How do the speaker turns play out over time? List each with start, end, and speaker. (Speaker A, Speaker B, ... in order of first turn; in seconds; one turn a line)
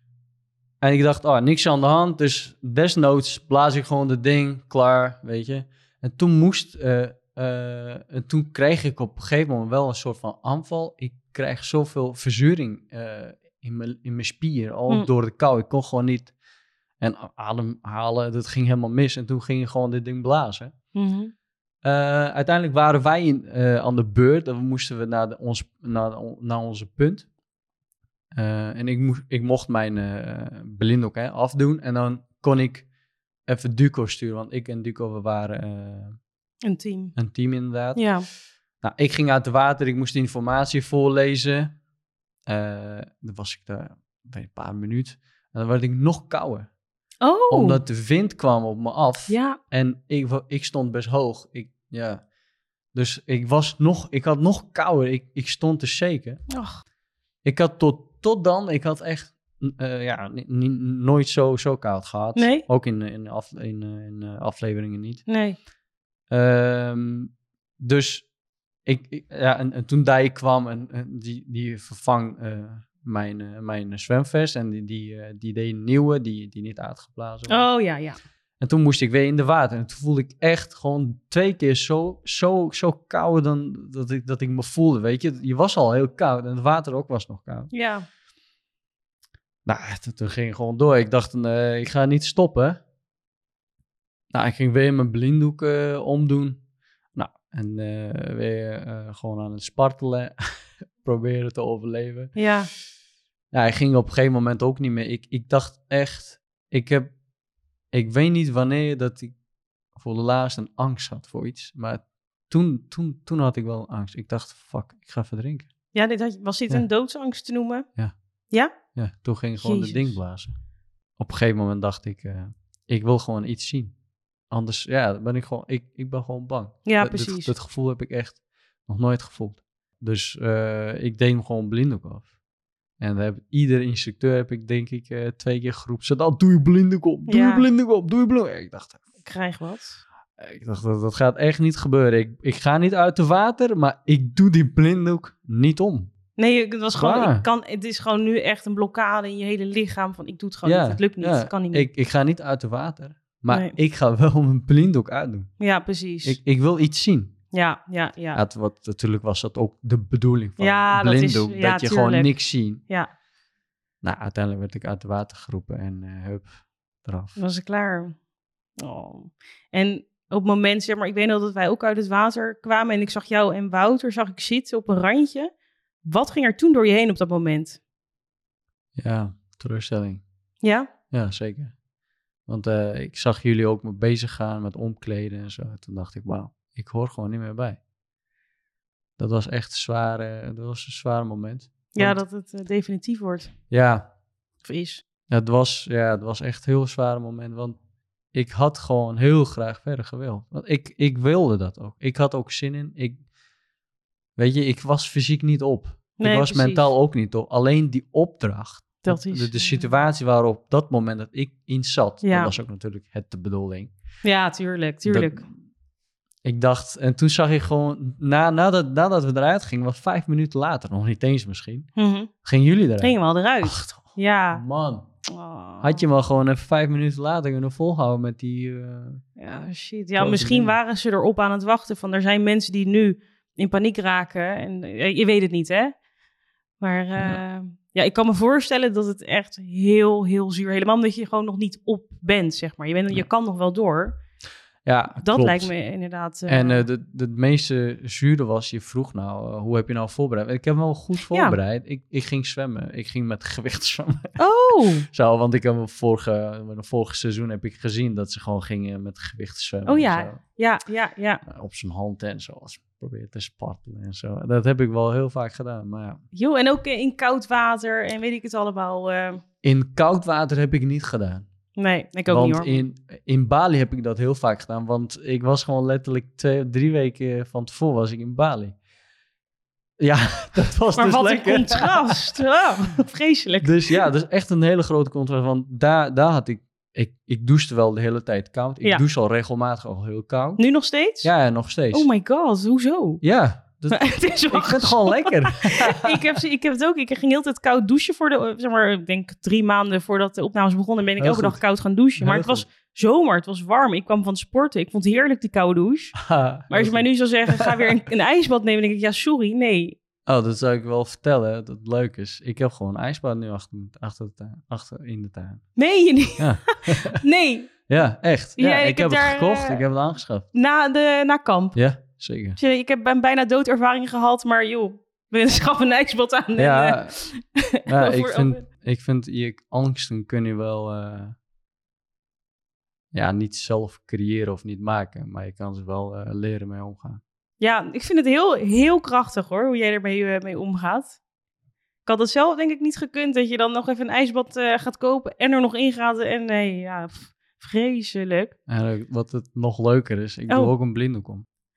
Speaker A: 0.8-16.3
Speaker A: 17.0-20.7
Speaker B: 20.9-21.3
Speaker A: 21.8-27.3
Speaker A: 28.3-32.9
Speaker A: 33.5-36.2
Speaker B: 36.6-37.1
Speaker A: 37.1-38.1
Speaker B: 38.0-38.3
Speaker A: 38.8-41.8
Speaker A: 42.5-46.7
Speaker B: 47.2-47.8
Speaker A: 47.5-52.2
Speaker B: 49.3-49.6
Speaker A: 52.9-56.4
Speaker B: 56.5-56.8
Speaker A: 57.5-65.3
Speaker B: 62.4-62.6
Speaker B: 65.3-65.6
Speaker A: 66.3-68.3
Speaker A: 68.8-77.7
Speaker B: 77.5-78.2
Speaker A: 78.6-87.7
Speaker B: 87.7-88.1
Speaker A: 89.7-92.8
Speaker A: 94.3-96.6
Speaker A: 97.1-100.3
Speaker A: 101.0-102.3
Speaker B: 102.4-102.7
Speaker A: 103.5-107.1
Speaker A: 107.9-109.3
Speaker A: 110.0-115.7
Speaker B: 115.9-117.9
Speaker A: 118.9-120.5
Speaker B: 119.6-120.2
Speaker A: 121.2-124.0
Speaker A: 124.5-132.3
Speaker B: 126.9-127.5
Speaker A: 133.0-139.0
Speaker B: 137.3-137.7
Speaker B: 139.2-140.0
Speaker A: 140.4-146.1
Speaker B: 146.4-151.9
Speaker A: 146.9-147.5
Speaker A: 150.6-155.5
Speaker B: 153.5-153.8
Speaker B: 155.6-156.4
Speaker A: 156.2-157.3
Speaker B: 157.5-158.4
Speaker A: 158.3-162.8
Speaker B: 160.6-162.3
Speaker B: 162.8-163.1
Speaker A: 164.0-167.4
Speaker B: 167.4-168.2
Speaker B: 168.8-175.5
Speaker B: 176.0-177.8
Speaker A: 179.0-180.2
Speaker B: 180.6-180.9
Speaker A: 181.1-181.8
Speaker A: 182.5-187.8
Speaker A: 189.2-192.2
Speaker B: 191.9-193.5
Speaker A: 193.7-194.1
Speaker B: 194.6-195.0
Speaker A: 195.3-197.8
Speaker A: 198.3-203.2
Speaker A: 204.4-213.9
Speaker B: 206.2-206.9
Speaker B: 209.1-209.9
Speaker B: 212.2-212.5
Speaker B: 214.2-215.4
Speaker A: 215.1-215.5
Speaker A: 216.4-221.9
Speaker B: 222.0-222.3
Speaker A: 222.4-225.1
Speaker B: 223.0-224.6
Speaker B: 225.3-226.0
Speaker A: 225.8-229.2
Speaker B: 229.4-235.9
Speaker A: 230.2-230.8
Speaker B: 236.8-244.2
Speaker A: 244.8-245.7
Speaker B: 245.2-246.8
Speaker A: 246.5-254.4
Speaker B: 251.3-251.6
Speaker B: 254.4-255.1
Speaker A: 255.1-260.4
Speaker B: 259.9-261.4
Speaker A: 261.5-266.2
Speaker B: 266.3-269.4
Speaker A: 269.6-271.5
Speaker B: 271.8-272.8
Speaker A: 272.3-278.8
Speaker A: 280.0-282.1
Speaker B: 281.0-284.1
Speaker A: 283.6-290.6
Speaker B: 290.6-291.3
Speaker A: 291.2-292.1
Speaker B: 291.9-293.2
Speaker A: 293.2-296.3
Speaker B: 293.9-310.0
Speaker A: 301.2-301.6
Speaker A: 302.2-302.6
Speaker A: 306.2-307.9
Speaker A: 310.3-315.7
Speaker B: 315.8-317.7
Speaker A: 316.4-317.2
Speaker A: 317.9-320.5
Speaker B: 318.6-319.8
Speaker B: 320.5-321.8
Speaker A: 321.8-322.6
Speaker B: 322.6-328.6
Speaker A: 326.6-327.2
Speaker A: 327.9-331.4
Speaker A: 333.1-337.2
Speaker B: 337.6-341.2
Speaker B: 342.1-348.5
Speaker A: 348.7-351.4